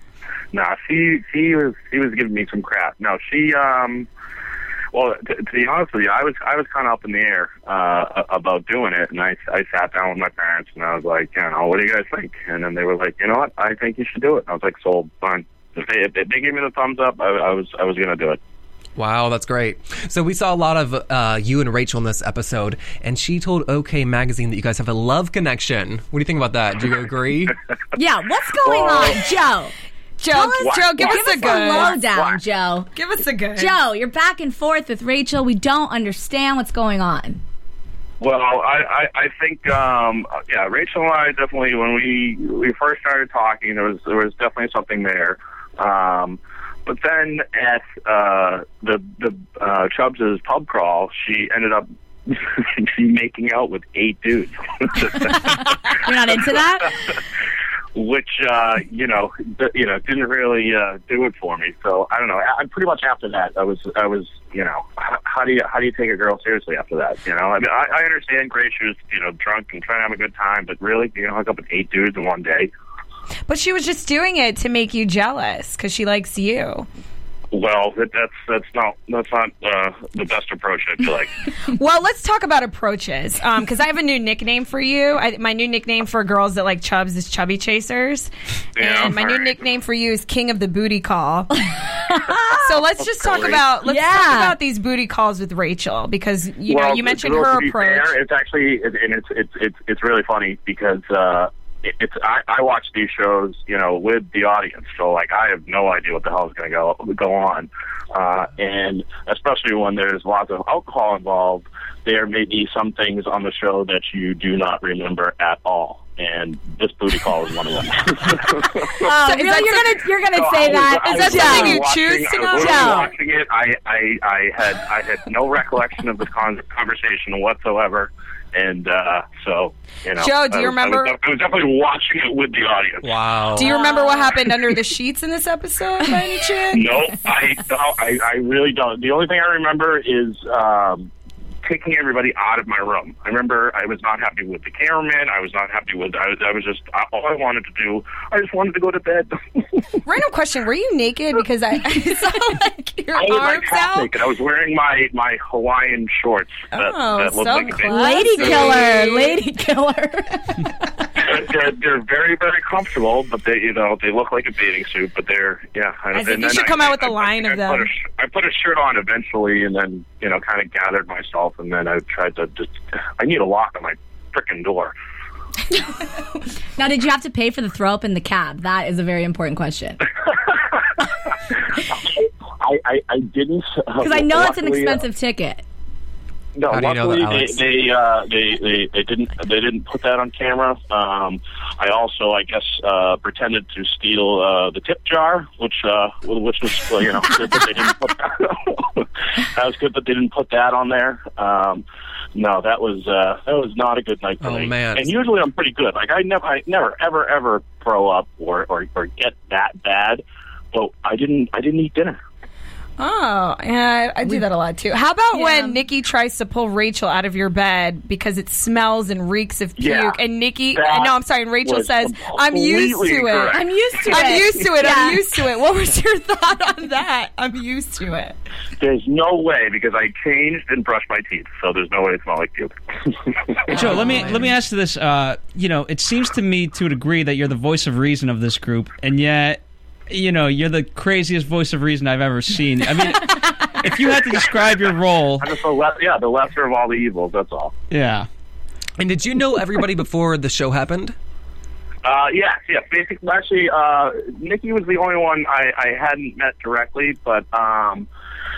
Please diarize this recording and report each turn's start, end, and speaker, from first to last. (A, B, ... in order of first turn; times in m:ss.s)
0:00.5-0:04.1 A
0:04.9-0:18.4 A
0:19.0-0:27.6 B
0:27.9-0:29.7 C
0:28.7-0:29.0 A
0:30.2-0:32.0 D
0:30.3-0:32.9 C
0:30.6-0:32.4 A
0:33.0-0:33.7 D
0:33.6-0:37.4 C
0:38.2-0:55.8 A
0:55.4-0:56.9 C
0:57.9-1:12.7 A
1:13.5-1:16.9 D
1:17.5-1:21.3 A
1:21.6-1:31.6 D
1:28.8-1:29.6 A
1:32.1-1:32.7 C
1:32.6-1:38.1 D
1:33.1-1:33.6 A
1:33.8-1:34.6 C
1:36.7-1:59.1 A
1:59.0-2:01.8 C
1:59.2-2:00.0 D
2:00.3-2:13.1 A
2:00.6-2:03.1 D
2:02.5-2:03.1 C
2:10.2-2:11.2 D
2:13.0-2:13.7 B
2:13.6-2:16.9 D
2:16.7-2:21.1 A
2:21.6-2:30.0 A
2:30.0-2:34.1 D
2:33.2-2:38.9 A
2:36.7-2:39.4 D
2:37.8-2:40.6 C
2:41.1-2:54.9 A
2:46.1-2:47.9 D
2:56.8-3:00.0 C
3:01.8-3:05.0 A
3:04.0-3:05.6 C
3:06.6-3:21.8 A
3:06.7-3:07.6 B
3:22.3-3:32.2 A
3:24.4-3:25.1 B
3:33.0-3:48.4 D
3:35.3-3:35.8 C
3:39.8-3:40.2 A
3:40.7-3:41.1 A
3:41.6-3:44.4 A
3:43.5-3:45.2 C
3:48.8-3:54.0 A
3:53.7-4:05.5 E
3:54.0-3:54.4 B
4:05.4-4:07.7 A
4:07.9-4:08.3 E
4:09.0-4:11.1 B
4:12.0-4:18.1 A